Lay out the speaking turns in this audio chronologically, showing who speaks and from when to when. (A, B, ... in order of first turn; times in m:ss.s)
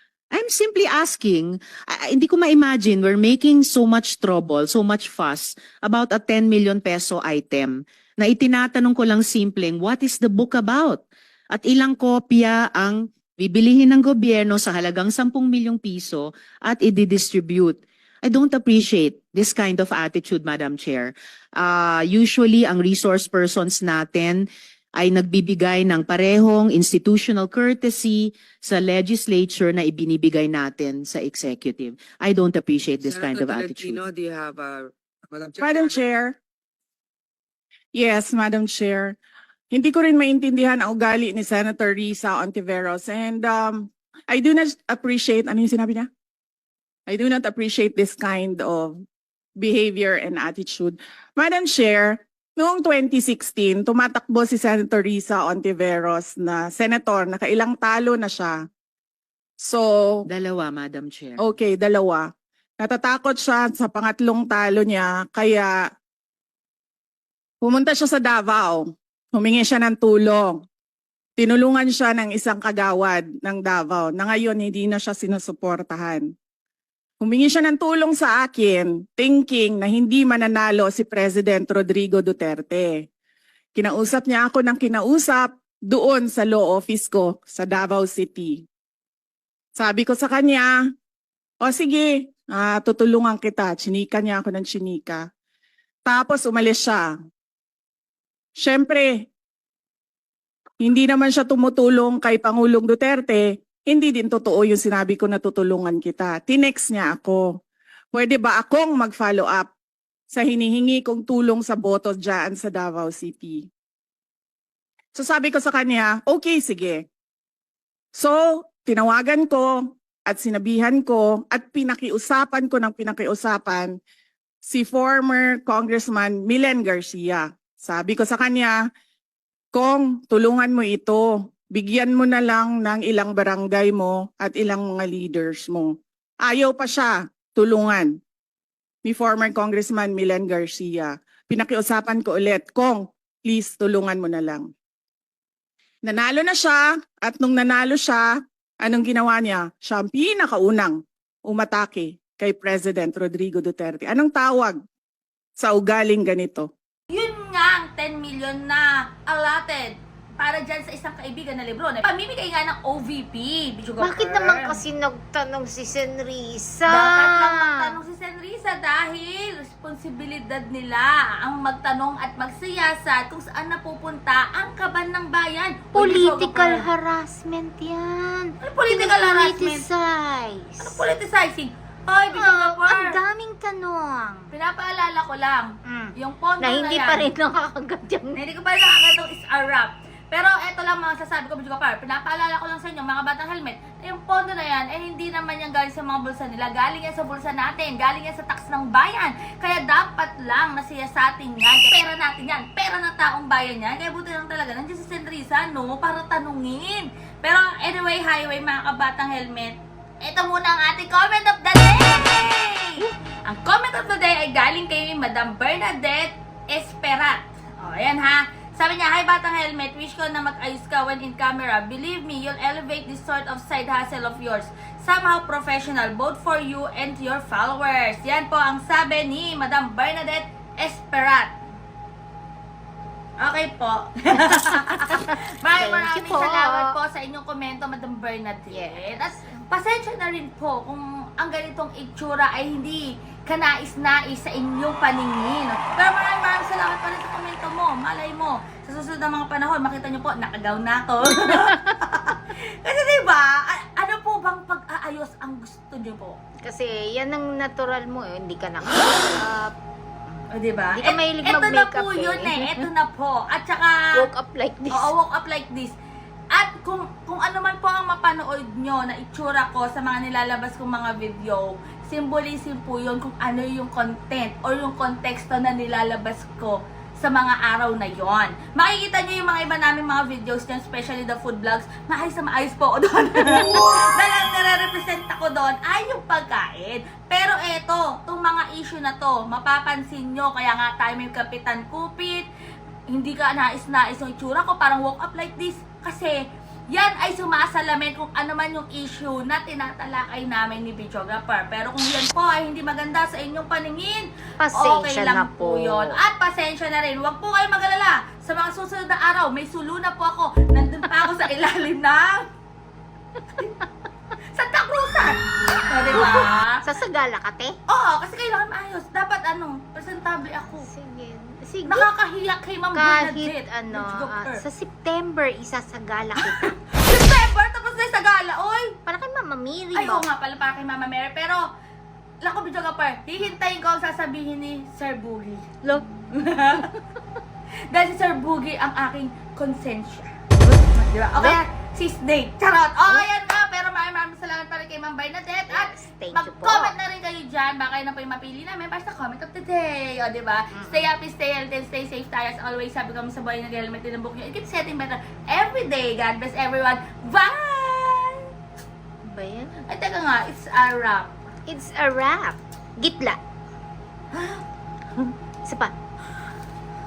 0:00.3-0:11.0 A
0:11.5-0:24.5 A
0:25.0-0:34.0 A
0:33.0-0:36.0 B
0:35.6-0:36.3 C
0:37.9-0:39.1 C
0:39.7-0:46.1 C
0:47.1-0:49.0 C
0:49.6-0:58.6 C
0:59.6-1:00.2 C
1:00.3-1:01.4 A
1:01.4-1:02.3 C
1:02.8-1:05.8 C
1:07.6-1:08.8 C
1:09.3-1:10.6 C
1:11.4-1:16.3 C
1:17.2-1:23.0 C
1:23.8-1:28.6 C
1:29.8-1:30.7 C
1:31.6-1:35.3 C
1:36.0-1:37.1 C
1:38.6-1:39.2 C
1:40.8-1:47.5 C
1:48.1-1:49.7 C
1:50.3-1:53.7 C
1:55.1-1:57.0 C
1:58.1-2:03.9 C
2:04.6-2:08.8 C
2:09.7-2:18.1 C
2:19.0-2:24.7 C
2:26.0-2:28.2 C
2:28.8-2:34.8 C
2:35.6-2:36.7 C
2:37.1-2:44.8 D
2:44.0-2:48.0 E
2:46.9-2:56.8 D
2:55.9-3:01.0 E
2:58.6-2:59.8 D
3:00.8-3:03.2 D
3:02.3-3:04.5 E
3:04.5-3:07.3 D
3:05.9-3:08.4 E
3:08.3-3:51.5 D
3:53.4-4:16.4 D
3:54.3-3:57.0 E
3:58.7-3:59.6 E
4:11.4-4:11.9 E
4:16.6-4:19.7 E
4:20.5-4:24.2 D
4:20.9-4:22.9 E
4:24.1-4:25.1 E
4:24.9-4:25.9 D
4:26.5-4:52.5 D
4:53.1-5:12.5 D
5:04.6-5:06.2 E
5:14.5-5:16.8 D
5:16.1-5:17.8 E
5:17.9-5:20.9 D
5:20.8-5:22.1 E
5:21.8-5:24.6 D
5:22.9-5:26.7 E
5:26.4-5:29.0 D
5:29.1-5:30.2 E
5:29.9-5:31.7 D
5:32.4-5:35.8 D
5:35.8-5:36.1 E
5:36.3-5:36.9 D
5:37.9-5:58.5 D
5:40.6-5:40.8 E
5:41.4-5:41.6 E
5:45.7-5:46.9 E
5:50.7-5:51.1 E
5:59.2-5:59.8 E
5:59.9-6:01.3 D
6:01.7-6:03.4 E
6:04.3-6:04.6 D
6:05.6-6:05.9 E